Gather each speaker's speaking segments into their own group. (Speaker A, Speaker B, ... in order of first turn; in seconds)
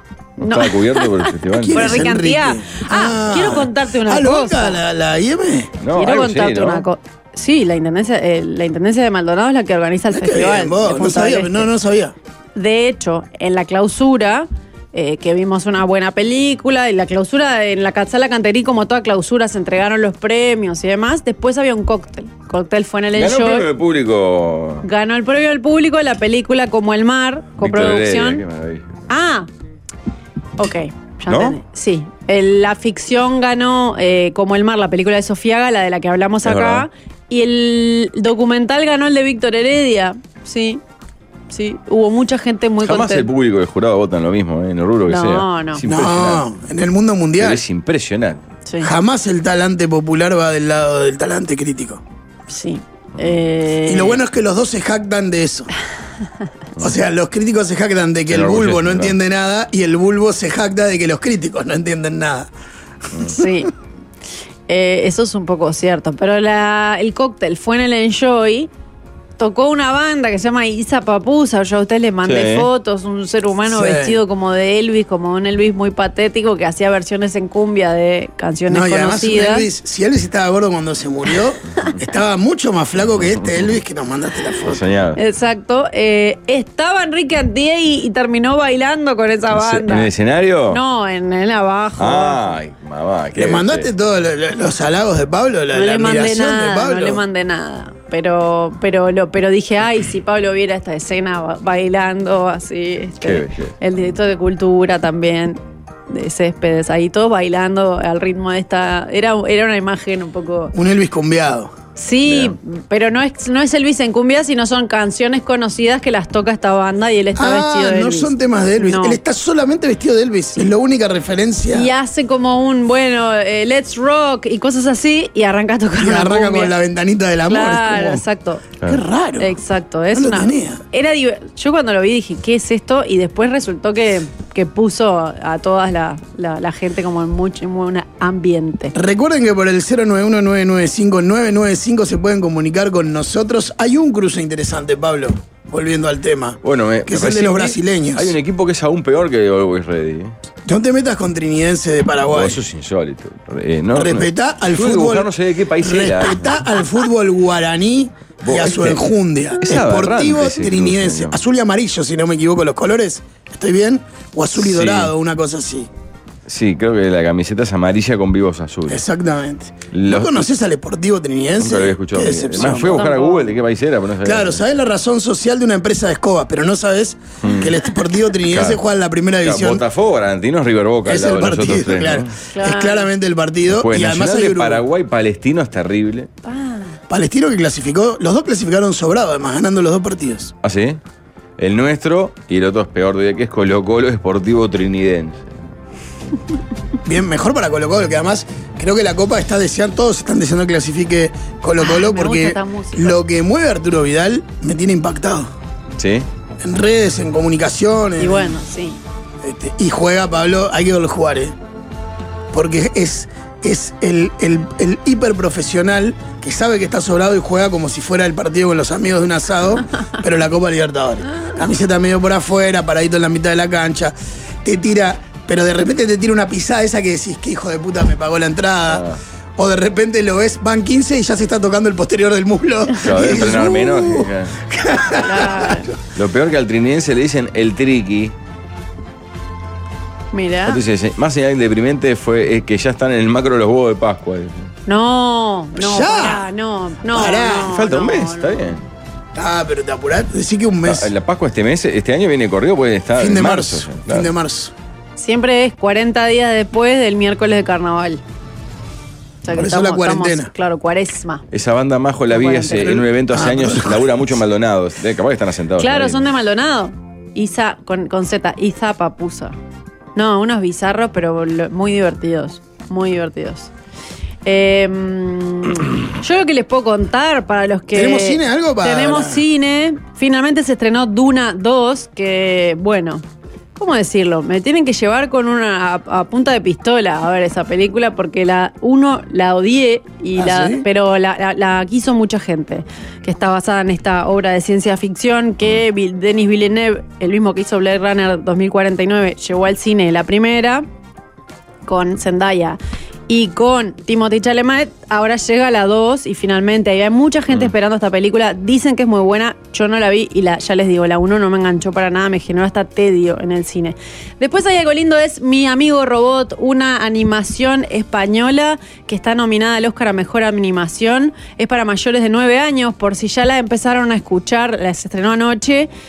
Speaker A: 0.4-2.1, 5.8-6.8, 23.1-24.9, 27.6-28.9, 31.3-31.6, 36.4-36.9, 42.8-46.5, 47.4-48.4, 58.3-59.2, 72.2-72.7, 83.3-83.7, 84.7-85.2, 89.5-90.8, 92.0-93.9, 103.2-103.8, 112.2-112.6, 146.6-150.3, 152.3-156.6, 158.4-161.4, 164.6-165.1, 166.5-169.0, 169.9-170.5, 171.6-174.6, 177.4-177.8, 178.5-178.8, 179.4-182.3, 183.7-186.3, 190.6-191.0, 191.6-195.6, 206.0-206.3, 228.9-229.2, 233.0-234.6, 236.1-238.3, 240.7-244.7, 247.6-248.8, 250.8-254.3, 261.5-266.2
Speaker B: 0.4-4.8, 5.9-11.7, 12.6-23.7, 24.8-28.4, 29.1-29.5, 30.6-40.8, 41.5-43.3, 45.1-45.8, 48.7-48.9, 52.5-54.2, 63.2-63.7, 64.7-68.7, 69.4-79.7, 85.2-90.1, 90.7-92.5, 95.7-110.8, 112.0-119.2, 121.7-126.7, 127.5-128.7, 129.4-138.9, 172.6-173.6, 182.5-183.1, 186.4-187.0, 201.8-203.2, 208.2-209.0, 235.2-235.9, 240.3-240.8, 244.9-248.7, 255.2-258.2, 259.4-261.4, 262.3-263.0, 265.8-269.6, 270.1-273.7, 274.4-283.2, 283.8-300.9, 301.9-302.8, 303.3-325.9
Speaker C: 1.5-5.8, 10.1-12.2, 45.9-47.6, 48.8-52.0, 53.9-55.7, 56.8-62.5, 73.7-74.2, 78.7-84.8, 93.3-97.2, 110.7-111.7, 117.4-121.9, 126.0-128.2, 128.8-129.5, 130.1-130.8, 138.9-148.4, 150.7-152.6, 153.9-165.9, 168.9-173.1, 174.2-179.8, 181.1-184.8, 187.1-190.5, 197.1-205.5, 206.6-208.6, 209.4-211.6, 212.5-229.1, 229.6-236.0, 245.8-246.5, 247.1-247.8, 249.3-251.1, 253.2-254.7, 259.5-260.5, 262.8-264.2, 277.9-279.4, 290.4-290.9